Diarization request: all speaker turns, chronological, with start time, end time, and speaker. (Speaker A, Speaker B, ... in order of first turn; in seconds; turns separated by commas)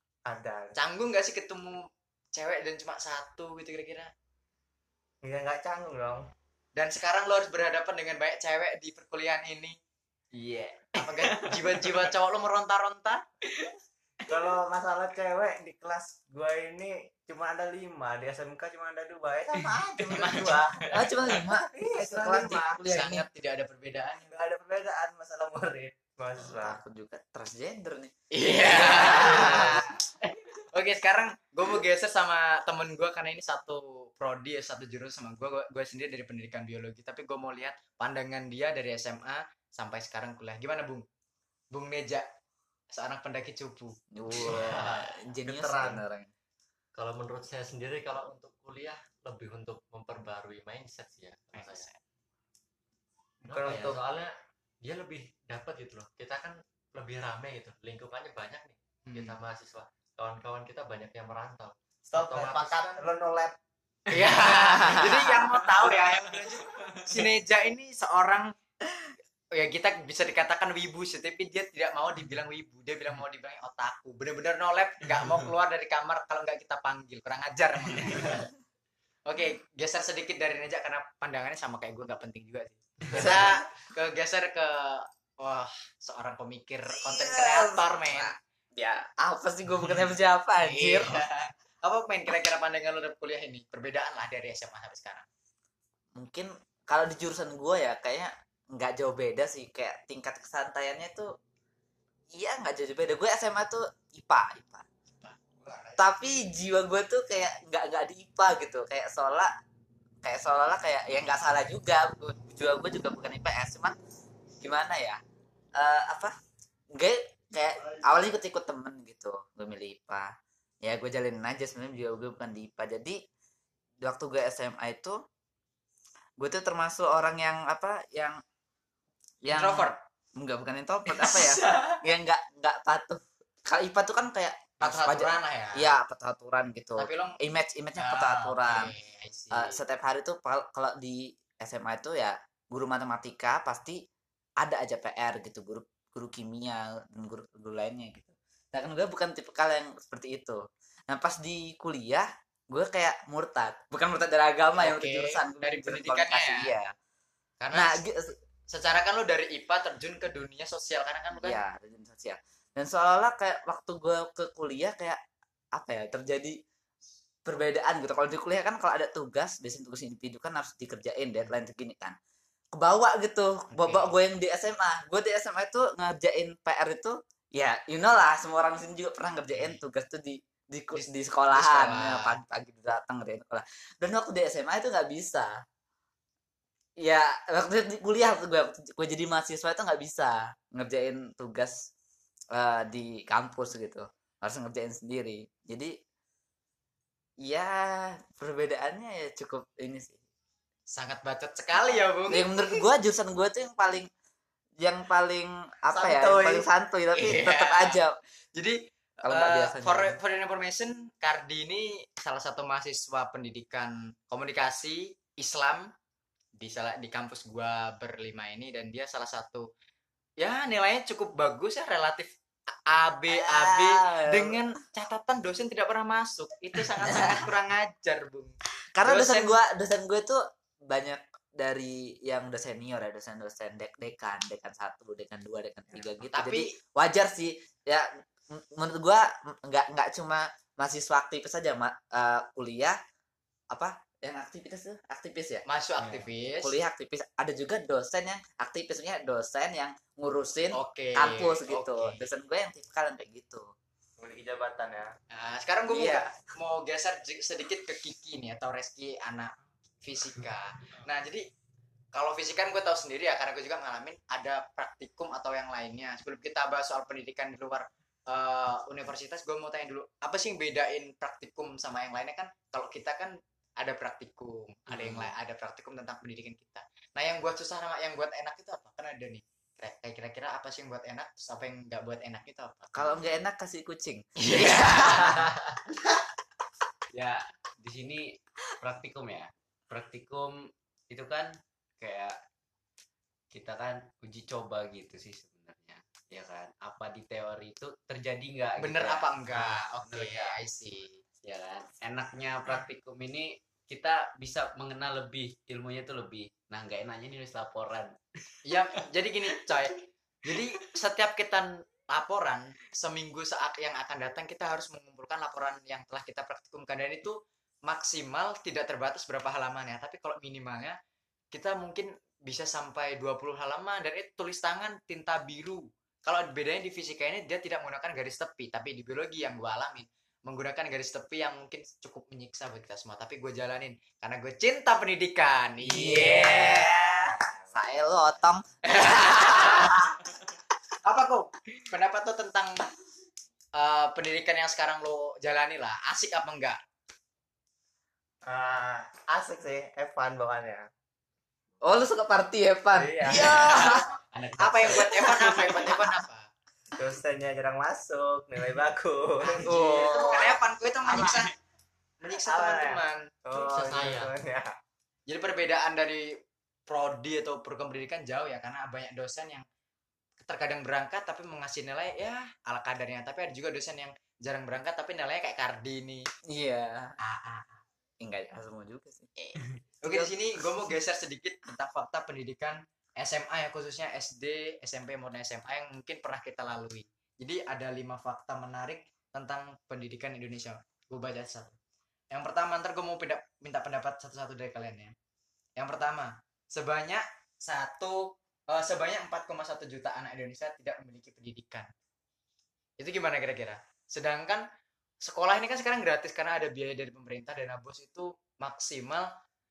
Speaker A: 0.2-0.7, Speaker B: 0.7-4.1, Speaker A: 5.2-6.3, Speaker B: 6.8-9.7, Speaker C: 10.3-12.1, Speaker B: 11.0-13.2, Speaker C: 13.5-13.7, Speaker A: 14.3-22.8, Speaker C: 19.5-20.9, Speaker D: 20.9-23.3, Speaker B: 22.8-24.3, Speaker A: 24.3-26.8, Speaker D: 26.5-28.1, Speaker B: 28.3-29.9, Speaker C: 28.5-30.6, Speaker D: 28.9-29.8, Speaker B: 30.7-41.0, Speaker B: 41.7-42.2, Speaker B: 42.9-44.6, Speaker D: 44.1-46.3, Speaker E: 44.4-46.0, Speaker E: 46.9-51.9, Speaker B: 51.5-52.0, Speaker E: 53.4-63.0, Speaker A: 53.5-54.0, Speaker B: 59.0-59.4, Speaker A: 62.1-63.5, Speaker B: 64.1-68.5, Speaker D: 64.5-65.4, Speaker B: 69.5-78.4, Speaker B: 79.2-88.3, Speaker D: 86.9-91.2, Speaker B: 90.6-95.3, Speaker D: 96.2-101.3, Speaker D: 102.3-104.8, Speaker D: 106.0-109.5, Speaker D: 110.2-114.0, Speaker D: 114.6-115.2, Speaker D: 115.8-116.3, Speaker D: 116.9-120.3, Speaker D: 120.8-123.2, Speaker D: 124.0-125.2, Speaker D: 126.4-128.4, Speaker D: 129.4-138.9, Speaker B: 129.5-130.0, Speaker B: 131.1-132.0, Speaker B: 134.8-135.9, Speaker B: 137.0-137.4, Speaker B: 138.0-139.8, Speaker D: 139.5-144.0, Speaker D: 144.6-156.9, Speaker B: 154.8-156.7, Speaker B: 157.6-158.0, Speaker D: 157.7-158.3, Speaker B: 158.7-161.6, Speaker D: 161.3-165.2, Speaker D: 165.7-166.6, Speaker D: 167.4-172.2, Speaker D: 172.7-185.6, Speaker B: 173.8-174.1, Speaker B: 180.9-182.4, Speaker D: 187.0-191.8, Speaker D: 192.5-195.9, Speaker D: 197.4-200.2, Speaker B: 200.9-202.8, Speaker D: 201.8-204.1, Speaker D: 204.8-208.1, Speaker B: 205.9-208.0, Speaker B: 208.6-215.9, Speaker D: 209.2-210.2, Speaker B: 216.6-219.7, Speaker B: 220.4-229.6, Speaker D: 223.3-224.6, Speaker D: 227.0-227.4, Speaker D: 228.9-243.0, Speaker B: 236.3-236.7, Speaker D: 243.7-245.6, Speaker B: 245.7-246.8, Speaker E: 246.0-246.3, Speaker D: 246.6-253.7, Speaker B: 250.7-252.2, Speaker A: 254.2-255.1, Speaker B: 255.3-261.4, Speaker D: 255.9-256.3, Speaker B: 262.1-283.1, Speaker C: 274.9-275.3, Speaker D: 282.9-285.5, Speaker B: 284.4-285.4, Speaker C: 287.1-290.6, Speaker C: 291.1-292.4, Speaker C: 293.5-300.6, Speaker B: 298.8-301.2, Speaker C: 301.4-308.2, Speaker B: 308.6-321.0, Speaker B: 321.5-337.4, Speaker D: 335.8-340.1, Speaker B: 338.8-340.1, Speaker B: 341.0-342.9, Speaker B: 343.8-346.8, Speaker A: 348.5-350.9, Speaker D: 351.8-354.1, Speaker A: 352.9-354.1, Speaker B: 353.3-354.0, Speaker C: 354.4-355.8, Speaker B: 354.6-356.5, Speaker A: 356.9-360.6, Speaker B: 359.6-361.5, Speaker D: 359.6-360.5, Speaker B: 362.2-363.2, Speaker A: 362.4-364.7, Speaker E: 363.5-364.3, Speaker B: 365.3-366.3, Speaker B: 366.9-369.6, Speaker B: 370.4-376.2, Speaker D: 376.5-377.1, Speaker B: 377.2-377.8, Speaker D: 378.2-379.3, Speaker B: 379.4-391.7, Speaker D: 380.1-380.3, Speaker B: 392.3-395.1, Speaker B: 395.8-401.9, Speaker B: 403.0-404.6, Speaker B: 405.2-409.3